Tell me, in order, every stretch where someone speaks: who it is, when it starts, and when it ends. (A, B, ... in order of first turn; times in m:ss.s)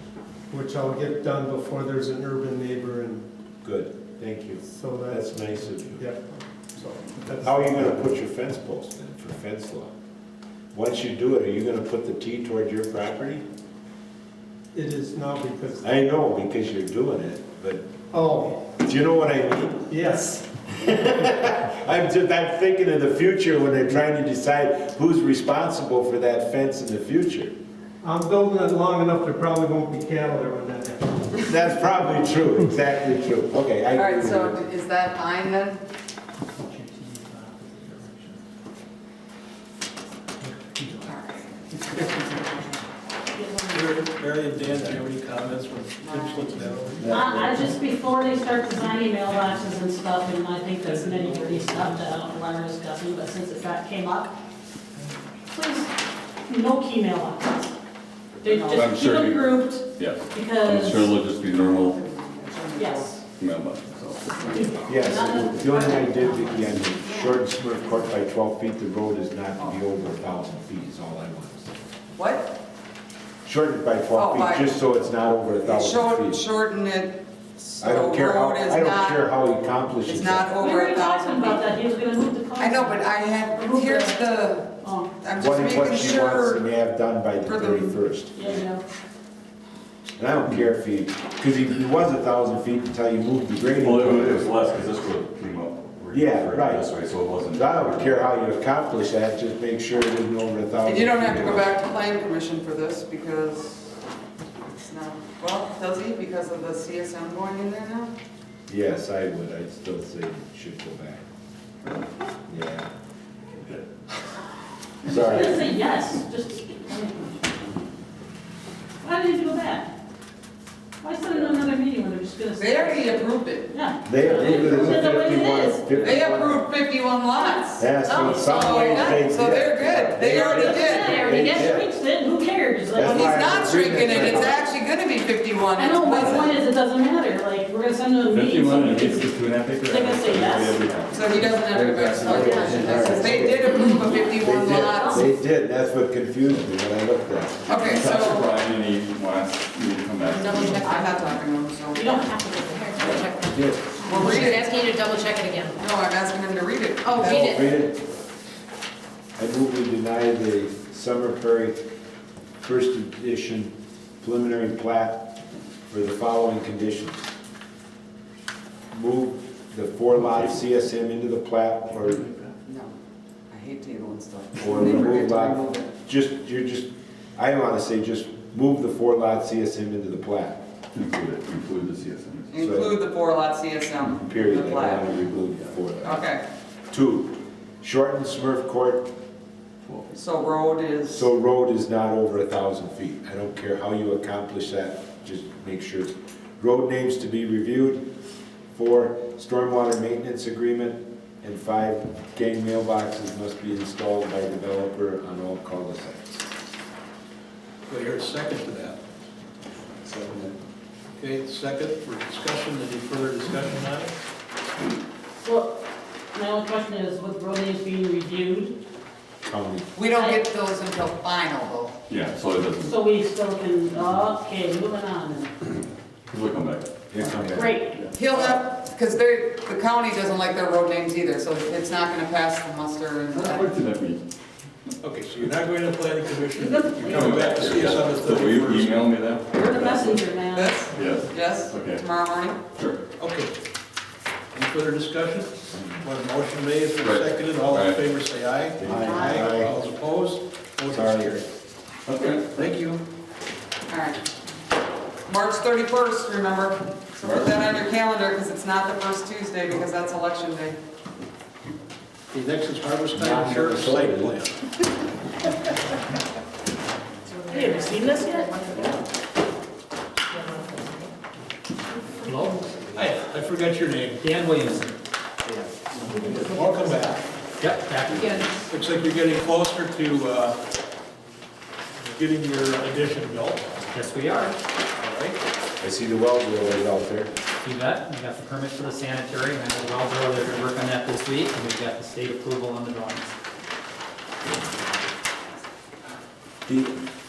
0:00.5-0:03.2 A
0:03.6-0:06.0 B
0:04.6-0:08.0 A
0:07.4-0:09.9 B
0:10.7-0:13.4 B
0:14.7-0:16.0 A
0:15.8-0:17.9 B
0:18.1-0:18.6 A
0:18.6-0:19.8 B
0:19.9-0:20.5 A
0:20.8-0:27.5 B
0:28.0-0:31.5 A
0:31.5-0:34.6 B
0:33.9-0:35.8 C
0:36.6-0:38.4 D
0:40.4-0:41.0 D
0:41.0-0:42.7 C
0:41.7-0:42.3 D
0:43.3-0:44.1 E
0:43.7-0:47.1 F
0:46.0-0:46.5 C
0:47.0-0:54.3 E
0:55.5-0:55.9 E
0:56.4-0:57.7 E
0:58.4-1:01.1 E
0:58.4-0:58.8 C
0:58.7-1:02.0 G
1:01.6-1:03.2 C
1:02.7-1:03.2 E
1:03.4-1:04.8 G
1:04.5-1:06.9 E
1:04.8-1:11.7 B
1:07.0-1:07.4 H
1:12.1-1:12.5 C
1:13.4-1:16.4 B
1:14.1-1:14.7 C
1:15.6-1:19.2 C
1:17.8-1:20.5 B
1:20.0-1:21.6 C
1:20.6-1:24.2 E
1:22.6-1:26.6 C
1:24.8-1:25.1 E
1:25.4-1:28.3 B
1:27.4-1:28.0 C
1:28.4-1:28.8 E
1:30.2-1:34.5 B
1:33.7-1:38.3 G
1:36.1-1:36.9 B
1:37.5-1:41.7 B
1:40.8-1:43.9 C
1:44.7-1:48.1 C
1:48.7-1:51.2 B
1:52.5-1:52.9 B
1:53.6-1:53.8 G
1:55.0-1:55.6 B
1:55.1-1:57.5 E
1:59.0-1:59.9 E
2:01.0-2:05.9 E
2:02.6-2:03.7 C
2:04.0-2:06.6 B
2:04.5-2:05.1 G
2:05.9-2:11.5 C
2:07.8-2:11.9 B
2:08.0-2:09.2 H
2:10.3-2:14.5 E
2:12.9-2:14.6 B
2:13.0-2:16.6 C
2:15.7-2:20.8 E
2:18.3-2:23.4 G
2:21.1-2:25.3 C
2:21.7-2:23.7 B
2:22.3-2:22.8 E
2:23.7-2:24.2 E
2:24.4-2:27.7 B
2:25.0-2:25.3 E
2:27.6-2:28.5 C
2:27.8-2:30.9 G
2:30.3-2:31.4 H
2:30.5-2:32.2 C
2:31.9-2:33.2 E
2:32.5-2:35.8 H
2:33.5-2:33.8 B
2:34.0-2:34.3 E
2:34.1-2:34.8 C
2:35.8-2:37.5 C
2:37.0-2:37.8 H
2:37.1-2:38.0 B
2:39.4-2:41.8 B
2:42.6-2:45.3 B
2:45.9-2:47.3 B
2:48.9-2:52.3 B
2:50.2-2:50.5 G
2:52.1-2:52.4 G
2:52.6-2:52.9 C
2:53.5-2:55.9 C
2:54.6-3:00.6 B
3:00.9-3:02.8 G
3:02.5-3:05.1 C
3:02.6-3:02.9 B
3:04.1-3:06.3 B
3:06.0-3:06.4 C
3:06.9-3:09.1 B
3:10.1-3:11.2 C
3:11.1-3:18.1 B
3:18.7-3:26.5 B
3:27.9-3:29.0 F
3:30.0-3:30.5 F
3:31.2-3:34.1 F
3:35.4-3:35.8 E
3:36.3-3:38.7 E
3:39.4-3:39.9 B
3:39.9-3:41.9 C
3:40.1-3:40.4 E
3:42.1-3:42.9 G
3:42.8-3:45.5 E
3:46.3-3:48.0 G
3:47.1-3:47.8 B
3:47.5-3:48.0 E
3:48.1-3:53.7 C
3:48.3-3:48.6 F
3:53.3-3:54.2 G
3:55.0-3:59.1 F
3:56.5-3:57.3 E
3:57.0-4:00.2 G
3:59.5-4:00.9 E
4:00.5-4:02.6 C
4:00.9-4:02.0 G
4:02.7-4:03.0 G
4:03.2-4:03.5 F
4:04.5-4:11.5 F
4:07.0-4:08.0 G
4:08.8-4:09.7 B
4:08.9-4:09.5 E
4:10.9-4:11.4 B
4:12.0-4:12.5 G
4:12.5-4:13.0 F
4:13.9-4:14.2 C
4:15.3-4:20.8 C
4:17.2-4:17.6 G
4:22.3-4:24.5 F
4:23.1-4:24.4 B
4:27.3-4:29.0 H
4:27.5-4:28.6 E
4:27.7-4:28.1 F
4:30.4-4:31.1 H
4:32.2-4:32.8 H
4:32.2-4:32.5 D
4:32.9-4:34.2 F
4:34.2-4:34.9 D
4:36.0-4:37.2 F
4:36.5-4:37.0 H
4:37.6-4:38.5 D
4:38.1-4:38.7 H
4:38.7-4:40.6 F
4:42.1-4:43.7 F
4:43.9-4:44.6 D
4:44.9-4:45.4 F
4:45.8-4:47.3 B
4:47.6-4:53.3 D
4:56.6-4:56.9 B